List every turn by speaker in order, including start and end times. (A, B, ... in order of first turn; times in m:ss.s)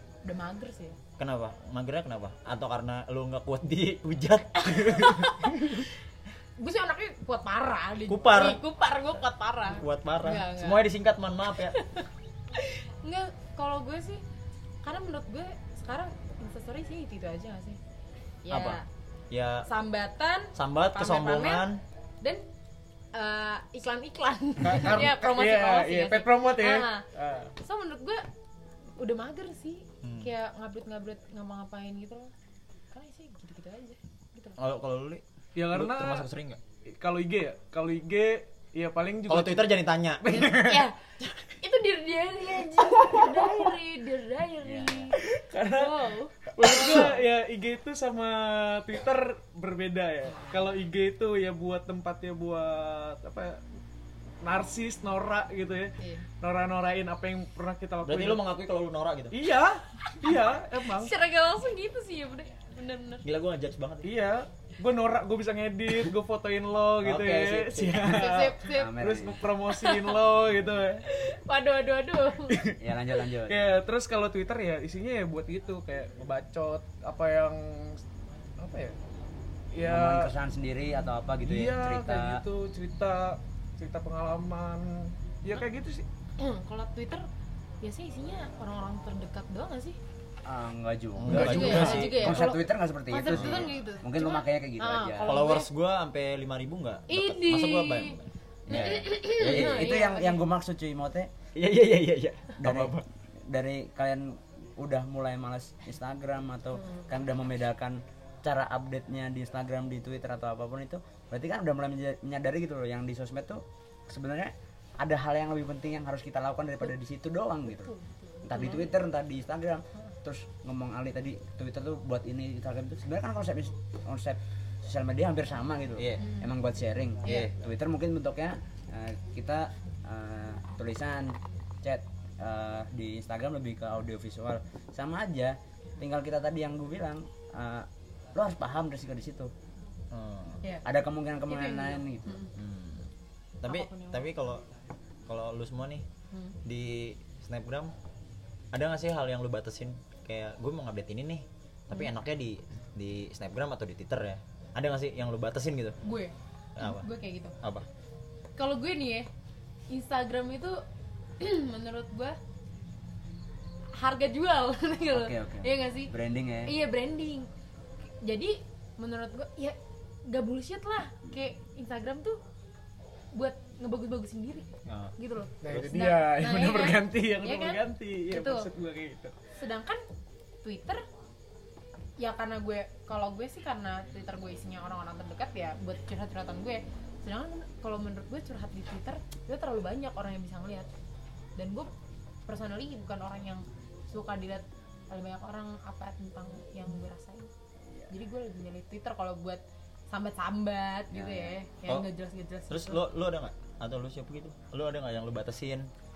0:00.2-0:01.0 A
0:01.2-0:05.8 B
0:04.8-0:05.8 A
0:06.6-0:10.9 A
0:08.1-0:11.8 B
0:11.7-0:14.2 A
0:14.8-0:17.8 A
0:18.4-0:18.8 A
0:18.5-0:19.7 B
0:19.6-0:21.7 A
0:20.6-0:21.8 B
0:23.1-0:27.1 A
0:24.6-0:27.5 C
0:27.6-0:28.3 A
0:29.0-0:32.3 A
0:30.0-0:30.3 B
0:32.9-0:34.6 A
0:34.6-0:36.6 B
0:35.6-0:36.3 C
0:36.9-0:40.8 C
0:39.3-0:40.8 B
0:40.5-0:41.0 A
0:41.6-0:47.2 A
0:42.5-0:43.7 C
0:44.6-0:45.1 D
0:45.2-0:53.6 C
0:46.6-0:47.2 B
0:54.4-0:58.4 C
0:56.0-0:56.3 A
0:58.0-0:59.4 B
0:59.3-1:01.1 C
1:00.9-1:03.2 A
1:03.2-1:04.1 B
1:04.0-1:11.0 C
1:07.0-1:08.2 B
1:08.0-1:09.0 A
1:08.7-1:09.4 D
1:09.7-1:10.2 A
1:11.1-1:12.7 A
1:12.5-1:12.8 C
1:12.7-1:13.7 D
1:13.4-1:18.0 C
1:18.6-1:19.0 C
1:19.7-1:20.3 C
1:19.8-1:22.4 D
1:21.4-1:26.1 C
1:26.4-1:27.3 A
1:27.8-1:30.0 A
1:30.5-1:35.4 D
1:31.2-1:32.5 B
1:31.3-1:35.7 A
1:33.3-1:33.7 B
1:35.2-1:40.0 B
1:37.1-1:40.4 A
1:38.7-1:41.3 D
1:41.6-1:43.0 B
1:42.6-1:57.9 D
1:57.7-1:58.9 A
1:58.4-2:19.5 D
2:06.0-2:06.3 B
2:06.2-2:06.5 A
2:07.2-2:07.5 A
2:07.2-2:07.5 B
2:20.1-2:20.6 B
2:20.8-2:22.4 D
2:21.5-2:22.5 A
2:22.6-2:23.1 B
2:23.6-2:24.6 B
2:23.6-2:24.3 A
2:25.3-2:26.1 B
2:26.3-2:26.6 A
2:26.6-2:27.9 B
2:28.7-2:36.0 B
2:36.0-2:37.6 A
2:36.8-2:37.1 B
2:37.6-2:37.9 B
2:38.6-2:39.3 A
2:39.9-2:40.8 A
2:41.4-2:42.4 A
2:44.0-2:46.1 A
2:45.1-2:46.7 D
2:46.7-2:47.5 A
2:48.2-2:52.4 A
2:53.3-2:58.7 A
2:54.9-2:55.2 B
2:55.6-2:59.4 C
2:59.6-3:00.0 A
3:00.6-3:01.0 A
3:02.2-3:10.9 A
3:11.6-3:11.9 A
3:12.5-3:17.5 A
3:18.1-3:23.0 A
3:21.1-3:21.6 D
3:22.7-3:25.9 B